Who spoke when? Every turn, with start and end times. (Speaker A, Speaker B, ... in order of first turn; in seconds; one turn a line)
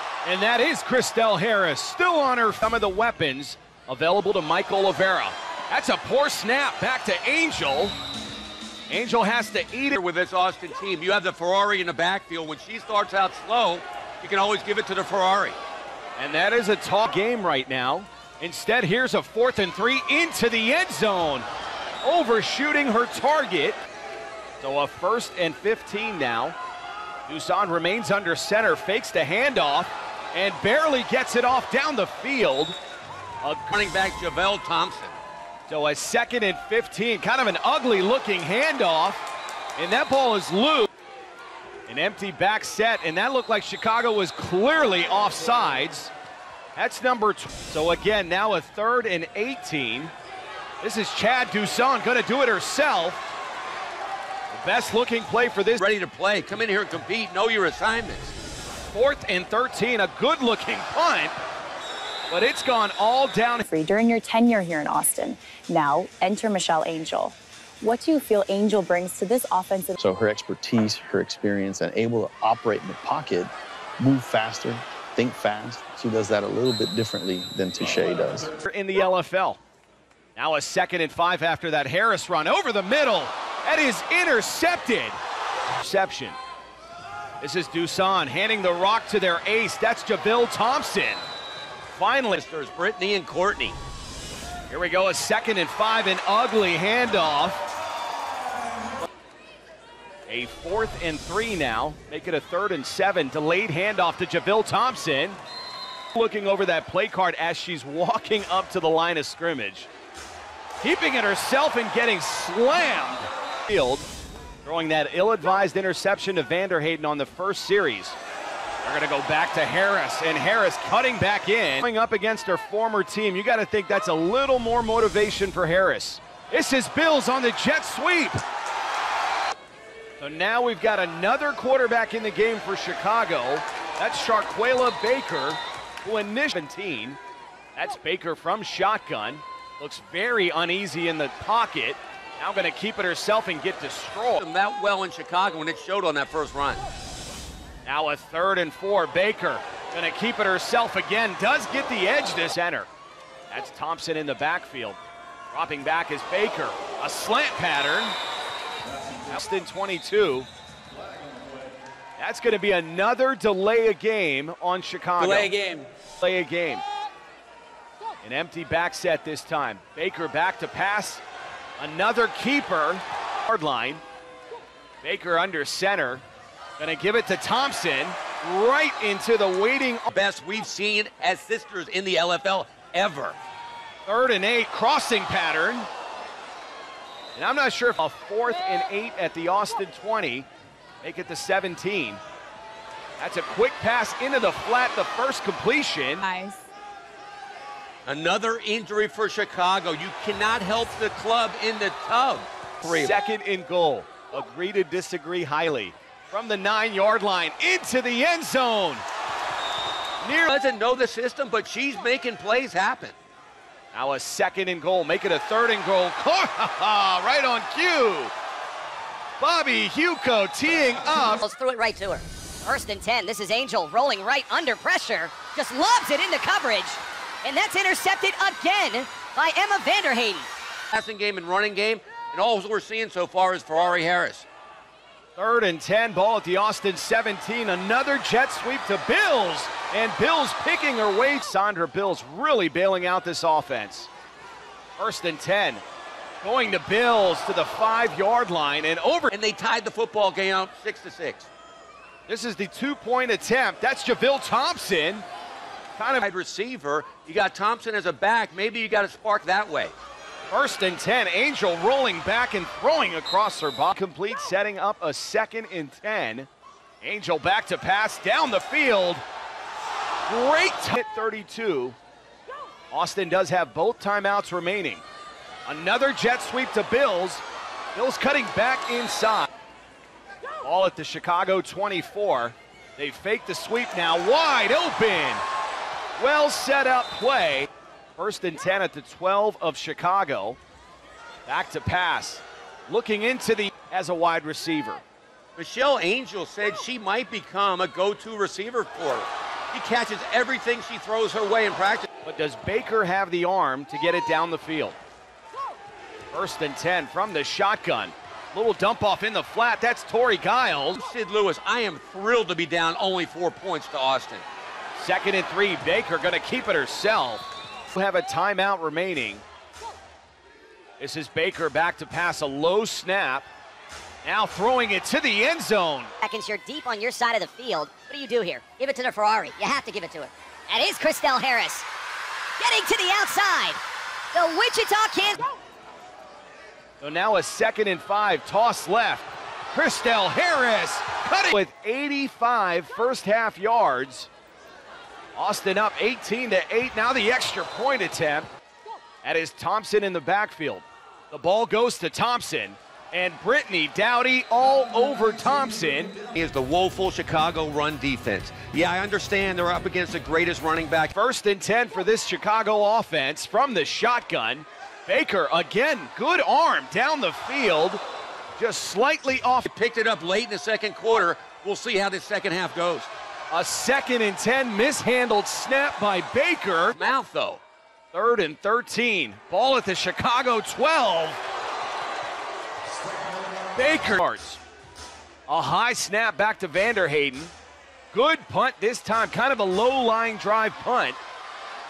Speaker A: 0.2-8.0
Speaker A: 8.9-10.0
Speaker B: 9.9-15.6
Speaker A: 16.2-21.5
Speaker A: 22.0-23.8
Speaker A: 24.6-26.6
Speaker A: 27.3-32.8
Speaker A: 33.4-33.7
Speaker B: 33.7-35.2
Speaker A: 35.7-39.3
Speaker A: 39.8-40.9
Speaker A: 41.9-46.1
Speaker A: 46.8-50.1
Speaker A: 50.8-53.2
Speaker A: 54.5-55.8
Speaker B: 55.8-58.4
Speaker A: 58.9-61.4
Speaker A: 62.3-63.6
Speaker C: 63.7-70.0
Speaker D: 70.0-78.5
Speaker A: 78.6-79.6
Speaker A: 80.4-85.2
Speaker A: 85.8-86.4
Speaker A: 87.4-91.2
Speaker A: 91.9-92.4
Speaker B: 92.3-93.8
Speaker A: 94.7-97.6
Speaker A: 100.3-105.4
Speaker A: 106.1-109.9
Speaker A: 110.8-114.1
Speaker A: 114.7-118.2
Speaker A: 118.8-128.4
Speaker A: 130.2-137.2
Speaker A: 137.8-144.4
Speaker B: 144.4-146.8
Speaker A: 147.8-152.9
Speaker A: 153.5-155.0
Speaker A: 155.5-158.2
Speaker A: 159.3-160.5
Speaker A: 162.2-165.5
Speaker B: 165.2-165.8
Speaker A: 166.2-166.8
Speaker A: 168.2-171.2
Speaker A: 171.8-174.0
Speaker A: 175.0-176.2
Speaker A: 176.8-180.1
Speaker B: 180.1-183.4
Speaker A: 184.1-185.9
Speaker A: 187.3-190.5
Speaker A: 191.0-192.2
Speaker A: 193.2-196.2
Speaker C: 196.3-196.6
Speaker B: 198.1-203.2
Speaker A: 202.9-209.0
Speaker A: 210.2-210.5
Speaker B: 210.5-213.2
Speaker A: 213.9-218.3
Speaker A: 219.4-221.4
Speaker E: 221.4-230.5
Speaker B: 230.9-234.5
Speaker A: 235.4-244.1
Speaker A: 245.0-245.8
Speaker A: 246.4-249.3
Speaker B: 249.3-251.5
Speaker A: 252.3-255.3
Speaker A: 256.0-256.3
Speaker B: 256.2-259.9
Speaker A: 260.5-266.5
Speaker A: 267.0-269.2
Speaker A: 270.3-272.0
Speaker A: 272.9-275.0
Speaker A: 275.7-277.4
Speaker A: 277.9-279.5
Speaker A: 280.6-285.4
Speaker A: 286.2-290.6
Speaker A: 291.5-295.0
Speaker B: 295.6-302.1
Speaker A: 302.2-305.0
Speaker A: 306.3-311.0
Speaker B: 310.9-314.4
Speaker A: 315.0-319.4
Speaker A: 321.0-323.5
Speaker A: 324.2-326.1
Speaker E: 326.2-331.9
Speaker E: 332.6-333.8
Speaker E: 334.3-335.5
Speaker A: 337.0-344.3
Speaker A: 345.4-348.5
Speaker A: 349.2-356.1
Speaker B: 356.3-361.1
Speaker A: 361.1-368.0
Speaker A: 368.6-369.7
Speaker B: 369.7-373.1
Speaker A: 373.5-377.0
Speaker B: 376.9-377.6
Speaker A: 378.1-381.4
Speaker A: 383.8-384.6
Speaker A: 385.5-387.5
Speaker A: 388.1-391.2